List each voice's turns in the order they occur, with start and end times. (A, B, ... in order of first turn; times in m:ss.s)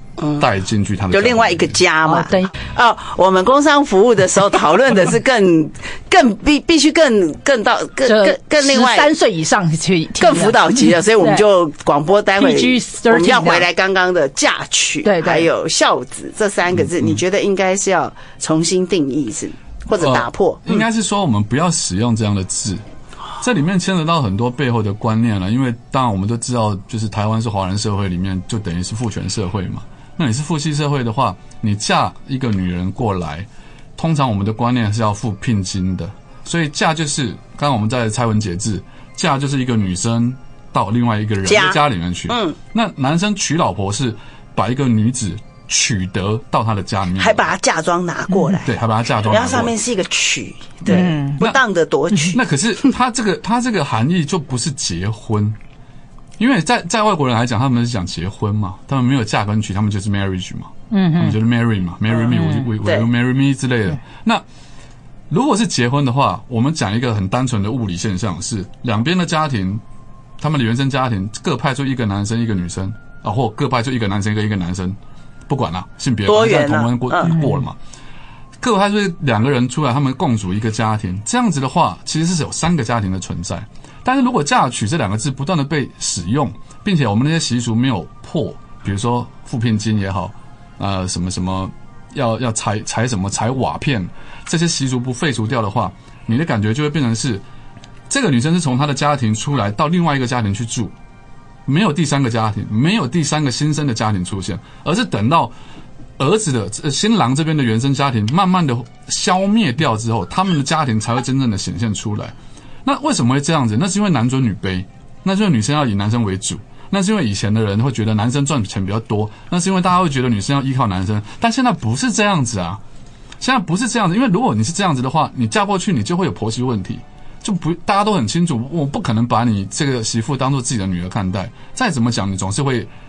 0:00.2-0:00.4 A
0:00.4-0:01.7 B
0:01.1-0:09.1 A
0:02.1-0:02.5 C
0:08.1-0:11.4 C
0:10.2-0:20.8 A
0:12.4-0:13.7 C
0:15.0-0:15.5 C
0:16.8-0:17.2 B
0:20.0-0:22.8 B
0:23.4-0:47.5 B
0:41.4-0:42.6 A
0:47.2-0:48.7 A
0:48.6-0:49.8 B
0:49.3-0:52.4 A
0:50.9-0:51.4 C
0:50.9-0:51.6 B
0:52.3-0:55.6 B
0:56.4-1:04.4 B
1:00.9-1:01.4 C
1:02.1-1:03.1 A
1:05.3-1:09.8 B
1:10.4-1:15.0 B
1:15.5-1:17.8 B
1:16.3-1:17.4 A
1:18.6-1:37.4 B
1:38.1-1:40.9 B
1:41.7-1:45.5 B
1:46.2-2:02.8 B
2:03.4-2:12.9 B